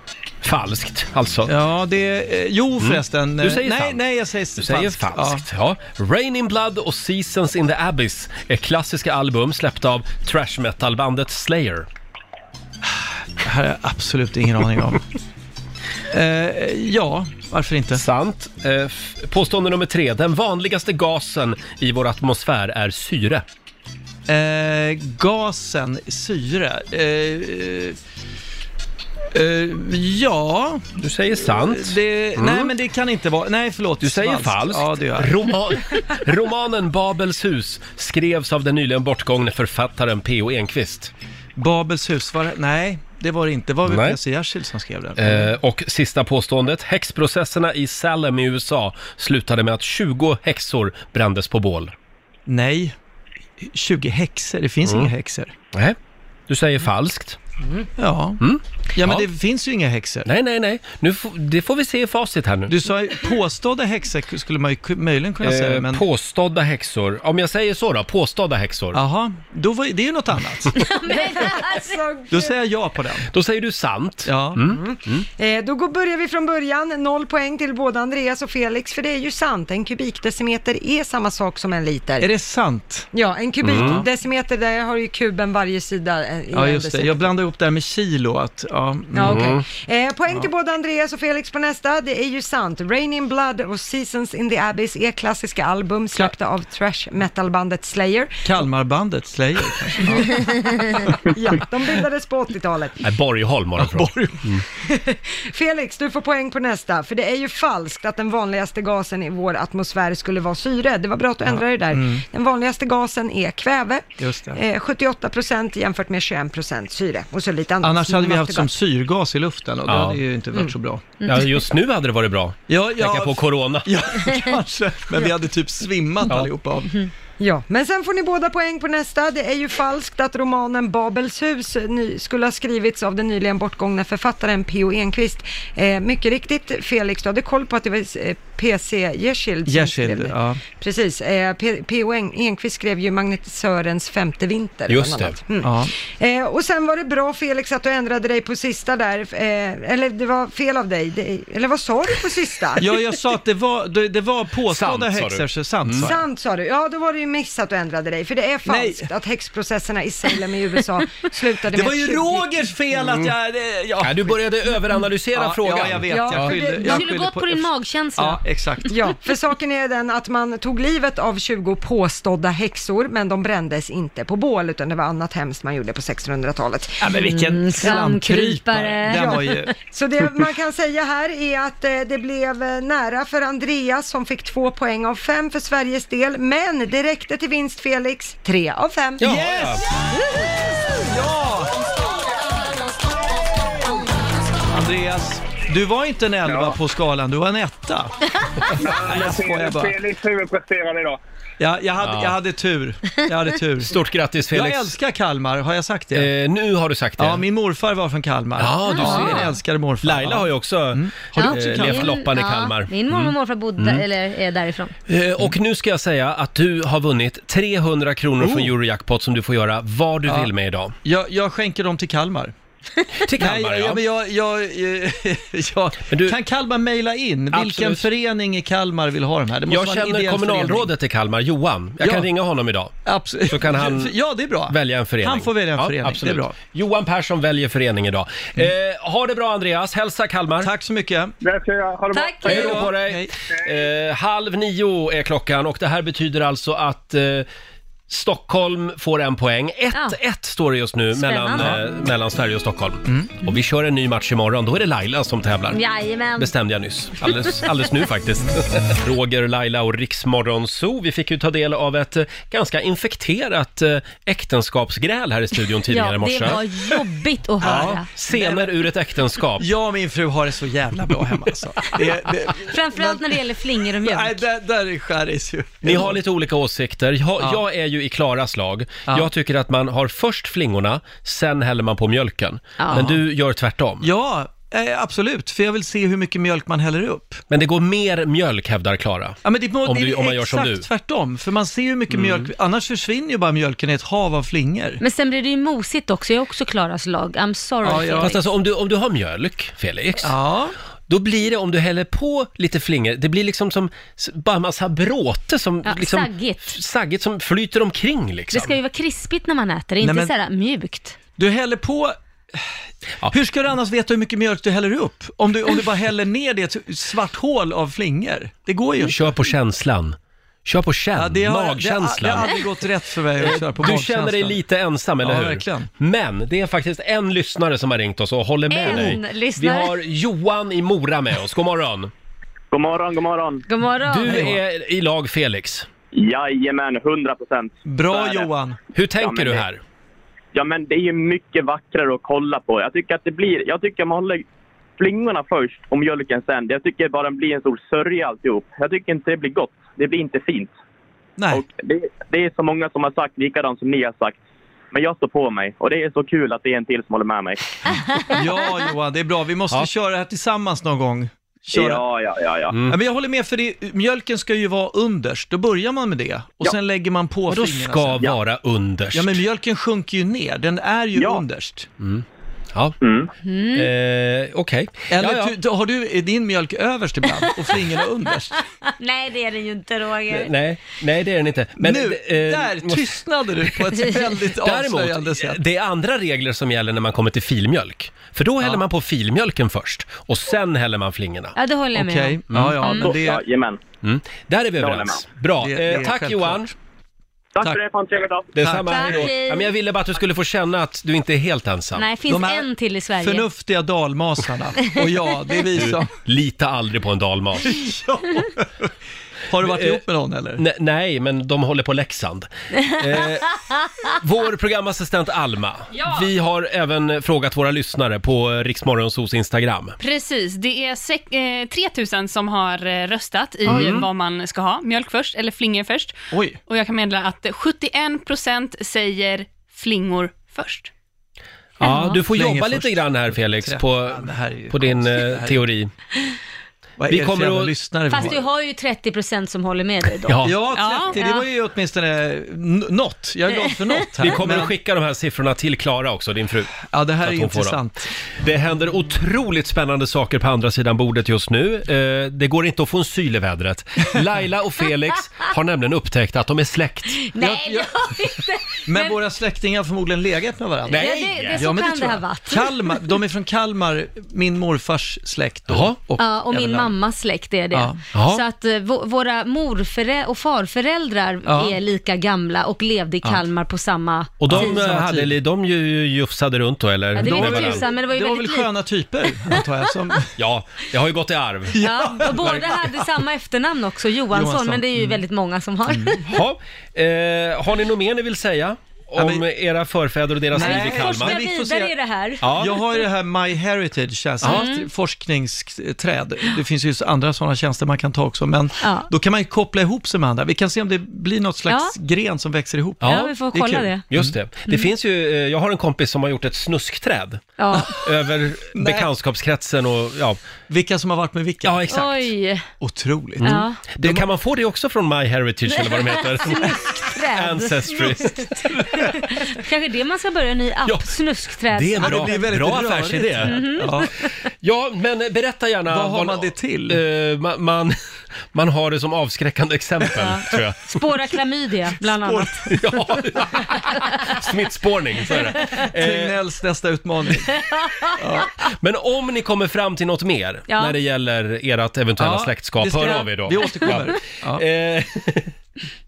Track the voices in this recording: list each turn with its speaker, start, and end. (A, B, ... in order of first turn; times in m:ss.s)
0:00.4-0:01.5 A
0:01.5-0:05.4 B
0:02.8-0:04.0 A
0:04.5-0:11.9 A
0:12.8-0:15.0 B
0:16.1-0:18.0 B
0:17.9-0:23.4 A
0:24.3-0:28.0 B
0:29.3-0:35.4 B
0:31.0-0:32.7 A
0:34.0-0:41.1 A
0:41.6-0:45.5 B
0:43.8-0:44.2 A
0:45.2-0:51.9 A
0:52.5-0:52.9 B
0:53.6-0:55.5 B
0:54.8-0:55.1 A
0:56.5-0:57.4 A
0:58.0-0:58.4 B
0:58.4-0:59.3 A
0:58.9-1:00.3 B
1:00.2-1:02.7 A
1:02.7-1:06.0 B
1:05.4-1:09.0 A
1:08.9-1:10.8 B
1:10.8-1:12.0 C
1:11.1-1:12.6 D
1:12.3-1:13.3 B
1:13.3-1:15.2 A
1:14.2-1:14.6 B
1:14.7-1:22.3 D
1:22.2-1:23.0 B
1:23.1-1:27.3 D
1:23.6-1:24.0 A
1:23.7-1:24.0 B
1:26.5-1:29.6 B
1:29.1-1:38.6 D
1:29.2-1:29.6 A
1:38.4-1:41.1 B
1:40.0-1:40.6 D
1:41.2-1:43.0 D
1:43.0-1:44.6 A
1:43.8-1:44.5 B
1:44.8-1:58.7 D
1:51.9-1:52.2 B
1:54.2-1:54.6 B
1:57.8-2:01.0 B
1:59.9-2:00.2 A
2:01.2-2:03.9 A
2:02.7-2:07.1 B
2:07.4-2:33.0 D
2:19.7-2:20.6 B
2:24.9-2:25.4 A
2:25.6-2:25.9 B
2:32.8-2:36.2 B
2:34.7-2:36.1 A
2:36.0-2:42.5 D
2:38.7-2:39.1 B
2:41.7-2:44.4 B
2:44.0-2:46.6 A
2:45.3-2:48.9 B
2:46.0-2:47.0 D
2:46.7-2:48.4 C
2:48.9-2:57.2 D
2:57.0-2:59.7 B
2:57.1-2:59.6 C
2:59.1-3:09.4 D
3:09.2-3:09.8 A
3:09.2-3:10.2 B
3:10.8-3:11.8 B
3:14.7-3:20.0 B
3:16.5-3:16.8 E
3:18.8-3:21.2 E
3:21.6-3:24.0 B
3:22.0-3:22.3 A
3:23.9-3:24.9 A
3:24.5-3:26.3 B
3:26.1-3:27.4 A
3:27.2-3:32.2 B
3:28.6-3:34.0 A
3:28.9-3:29.6 C
3:31.3-3:34.9 C
3:35.1-3:41.0 A
3:38.4-3:38.7 B
3:40.2-3:40.5 B
3:41.0-3:42.5 B
3:43.2-3:44.0 A
3:43.4-3:50.9 B
3:46.1-3:46.4 A
3:47.5-3:48.0 A
3:49.7-3:52.9 A
3:52.0-3:52.3 B
3:53.0-3:56.6 B
3:53.5-3:54.1 A
3:54.7-4:00.7 A
4:00.6-4:01.3 B
4:01.4-4:02.4 E
4:02.1-4:02.8 C
4:02.4-4:03.3 B
4:02.4-4:07.5 A
4:08.1-4:15.8 A
4:11.1-4:11.8 C
4:11.5-4:11.8 B
4:15.7-4:16.5 C
4:16.4-4:26.6 A
4:25.9-4:28.0 C
4:27.6-4:28.7 B
4:27.6-4:29.7 A
4:29.6-4:33.4 B
4:32.7-4:34.4 C
4:34.0-4:36.2 B
4:35.8-4:44.1 A
4:42.8-4:43.1 C
4:42.9-4:43.2 B
4:44.0-4:47.4 B
4:47.5-4:50.9 A
4:49.4-4:55.0 B
4:52.1-4:52.5 A
4:55.0-4:58.4 C
4:57.8-4:58.4 B
4:57.9-5:00.3 A
5:00.2-5:00.7 B
5:01.1-5:08.7 A
5:05.8-5:06.8 C
5:08.5-5:11.2 C
5:10.0-5:10.3 B
5:11.3-5:12.7 B
5:13.3-5:19.2 B
5:19.0-5:22.6 A
5:21.1-5:24.6 B
5:23.4-5:32.1 A
5:25.2-5:25.9 B
5:28.7-5:30.0 C
5:32.7-5:33.6 F
5:33.7-5:34.5 C
5:34.1-5:35.9 A
5:34.2-5:34.6 B
5:36.1-5:38.5 F
5:37.8-5:38.8 B
5:38.9-5:39.8 A
5:39.2-5:39.6 F
5:40.5-5:44.4 F
5:45.0-5:50.7 F
5:51.4-5:51.6 B
5:51.5-5:54.4 F
5:54.9-5:57.6 F
5:58.3-6:02.0 B
6:01.7-6:02.7 F
6:02.8-6:08.3 B
6:07.5-6:09.4 A
6:09.1-6:11.9 B
6:11.2-6:11.4 F
6:12.0-6:13.0 A
6:13.0-6:13.3 F
6:13.4-6:13.9 C
6:13.7-6:15.5 A
6:15.1-6:18.6 B
6:19.0-6:20.5 C
6:20.3-6:23.2 A
6:21.8-6:25.6 B
6:24.6-6:31.5 A
6:31.6-6:33.1 C
6:31.9-6:33.4 B
6:32.5-6:32.8 A
6:32.8-6:33.8 F
6:34.0-6:36.7 A
6:34.8-6:35.2 F
6:35.6-6:36.7 B
6:37.5-6:38.5 F
6:38.5-6:42.0 A
6:38.6-6:39.3 B
6:38.9-6:39.7 C
6:42.0-6:43.4 C
6:42.3-6:46.1 B
6:45.8-6:47.7 A
6:47.6-6:48.9 B
6:49.5-6:50.6 B
6:49.6-6:50.0 A
6:50.6-7:00.0 A
7:00.0-7:10.9 G
7:03.6-7:04.1 A
7:03.7-7:04.0 B
7:06.3-7:06.6 B
7:11.8-7:15.9 A
7:11.8-7:12.2 C
7:12.1-7:15.6 B
7:17.0-7:18.4 B
7:17.1-7:18.4 A
7:18.1-7:20.4 C
7:20.3-7:20.6 A
7:20.4-7:24.7 B
7:20.7-7:21.1 G
7:21.1-7:21.4 C
7:24.2-7:27.8 A
7:26.8-7:28.1 B
7:28.4-7:37.2 A
7:37.3-7:39.2 C
7:37.4-7:38.0 B
7:38.8-7:46.9 B
7:40.9-7:41.7 A
7:40.9-7:42.7 C
7:45.7-7:46.0 A
7:46.2-7:54.8 C
7:47.7-7:48.0 B
7:48.1-7:48.4 A
7:51.4-7:51.8 B
7:54.4-7:57.8 A
7:54.5-7:55.4 B
7:57.1-8:00.3 B
7:57.2-7:58.7 C
8:00.4-8:02.8 A
8:01.7-8:02.6 B
8:01.8-8:06.2 C
8:04.3-8:05.2 B
8:05.9-8:06.2 B
8:06.3-8:11.4 A
8:09.2-8:09.4 B
8:10.5-8:11.9 B
8:10.6-8:12.5 C
8:12.4-8:12.8 A
8:12.5-8:23.3 B
8:14.4-8:14.8 C
8:18.8-8:19.1 C
8:21.7-8:21.9 C
8:23.0-8:30.4 A
8:23.0-8:24.0 C
8:27.6-8:27.9 C
8:28.7-8:29.1 B
8:30.7-8:31.8 B
8:31.6-8:32.3 A
8:31.9-8:32.6 C
8:32.8-8:34.3 B
8:33.4-8:39.4 A
8:33.4-8:33.8 C
8:35.8-8:38.5 C
8:39.0-8:42.7 C
8:40.8-8:41.1 A
8:41.7-8:44.0 A
8:42.0-8:44.1 B
8:43.4-8:44.1 C
8:44.6-8:48.0 A
8:45.9-8:47.0 B
8:48.5-8:51.1 A
8:50.2-8:52.7 C
8:52.1-8:52.8 B
8:52.7-8:56.4 A
8:55.7-8:57.5 B
8:57.5-8:58.2 C
8:58.2-8:58.5 B
8:58.8-9:05.5 A
9:00.7-9:01.0 C
9:02.2-9:04.6 B